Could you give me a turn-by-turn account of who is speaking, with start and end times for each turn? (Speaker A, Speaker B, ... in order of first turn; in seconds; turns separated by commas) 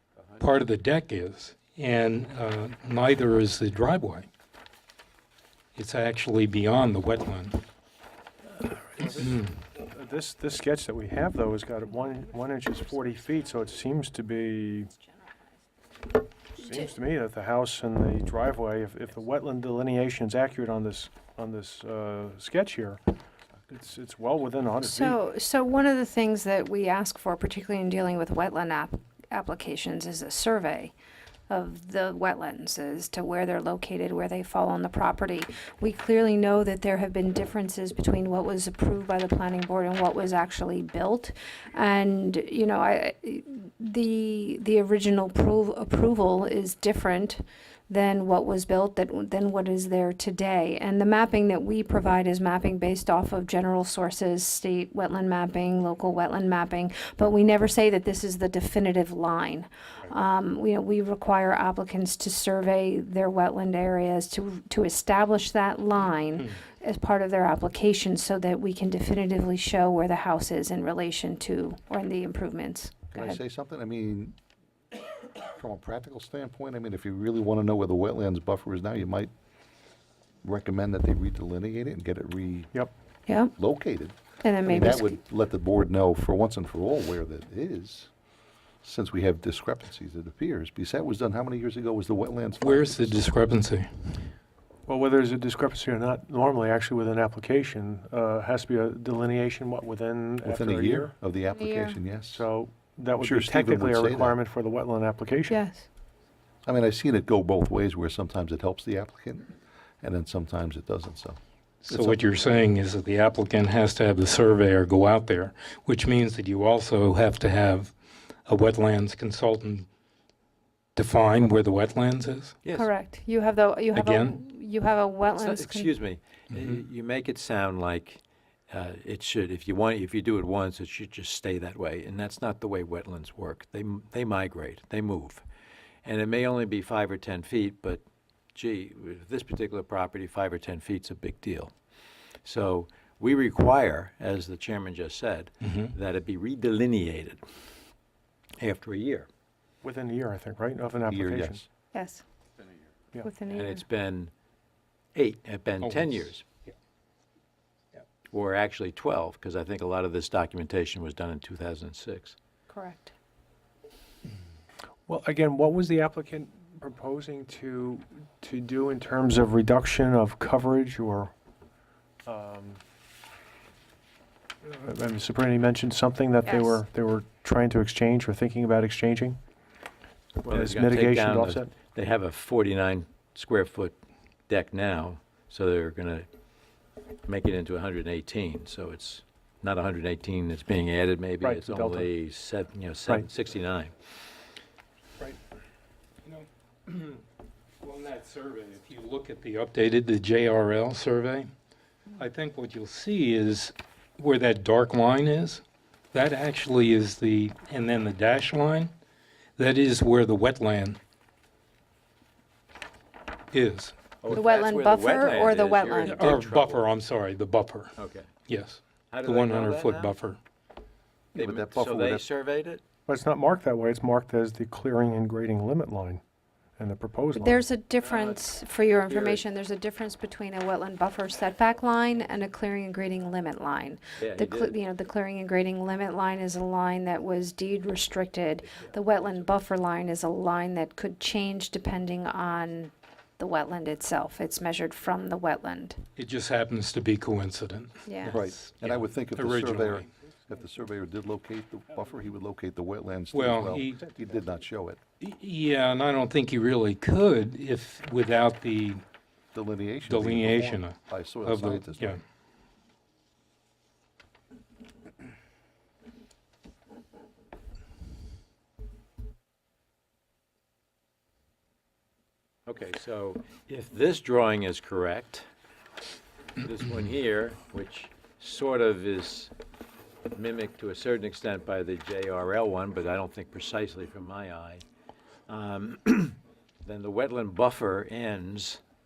Speaker A: 0.4-4.3, Speaker A: 5.7-7.6, Speaker B: 8.6-14.9, Speaker A: 9.0-9.6, Speaker B: 16.6-23.0, Speaker B: 23.7-25.2, Speaker C: 24.8-30.9, Speaker C: 31.5-73.4, Speaker D: 73.1-74.3, Speaker D: 75.4-79.3, Speaker D: 80.4-82.7, Speaker C: 83.3-83.5, Speaker D: 83.5-88.1, Speaker C: 84.4-85.2, Speaker D: 88.8-93.1, Speaker A: 92.6-94.3, Speaker B: 94.9-101.1, Speaker D: 100.4-102.4, Speaker C: 101.5-102.2, Speaker B: 102.3-105.6, Speaker D: 103.2-104.4, Speaker C: 105.5-105.9, Speaker D: 106.6-111.4, Speaker A: 111.8-117.9, Speaker D: 111.9-112.3, Speaker A: 118.5-119.9, Speaker A: 121.0-122.5, Speaker E: 122.6-122.9, Speaker C: 122.7-125.9, Speaker A: 123.9-124.4, Speaker E: 125.3-135.4, Speaker A: 126.5-126.8, Speaker E: 136.0-138.0, Speaker E: 138.5-141.8, Speaker E: 142.4-147.4, Speaker A: 145.6-145.9, Speaker E: 148.6-149.3, Speaker B: 149.8-151.7, Speaker D: 151.1-151.6, Speaker C: 151.9-152.2, Speaker C: 153.2-153.8, Speaker E: 153.5-154.3, Speaker E: 155.1-156.4, Speaker A: 155.8-156.3, Speaker E: 158.3-162.3, Speaker C: 162.7-163.1, Speaker B: 165.1-171.3, Speaker B: 172.2-172.8, Speaker B: 174.6-179.4, Speaker C: 176.4-176.8, Speaker B: 180.4-181.7, Speaker E: 180.4-184.0, Speaker E: 184.5-186.3, Speaker E: 187.2-193.9, Speaker B: 191.4-192.1, Speaker A: 196.2-197.2, Speaker A: 197.8-201.5, Speaker A: 202.2-208.9, Speaker A: 209.6-211.0, Speaker A: 213.5-213.9, Speaker E: 214.2-216.8, Speaker C: 214.3-216.2, Speaker A: 216.0-220.4, Speaker E: 218.0-218.3, Speaker E: 219.1-220.2, Speaker D: 221.3-222.2, Speaker E: 221.3-222.8, Speaker B: 223.1-226.2, Speaker B: 226.8-227.7, Speaker C: 227.3-246.0, Speaker E: 228.0-228.4, Speaker E: 229.0-229.4, Speaker E: 234.2-234.8, Speaker E: 238.6-239.6, Speaker A: 246.2-250.1, Speaker C: 248.1-248.4, Speaker D: 248.3-255.0, Speaker A: 253.3-254.0, Speaker A: 255.2-259.0, Speaker D: 259.5-262.2, Speaker A: 260.1-262.2, Speaker E: 272.6-275.5, Speaker E: 276.6-279.5, Speaker E: 280.3-284.8, Speaker E: 285.5-288.8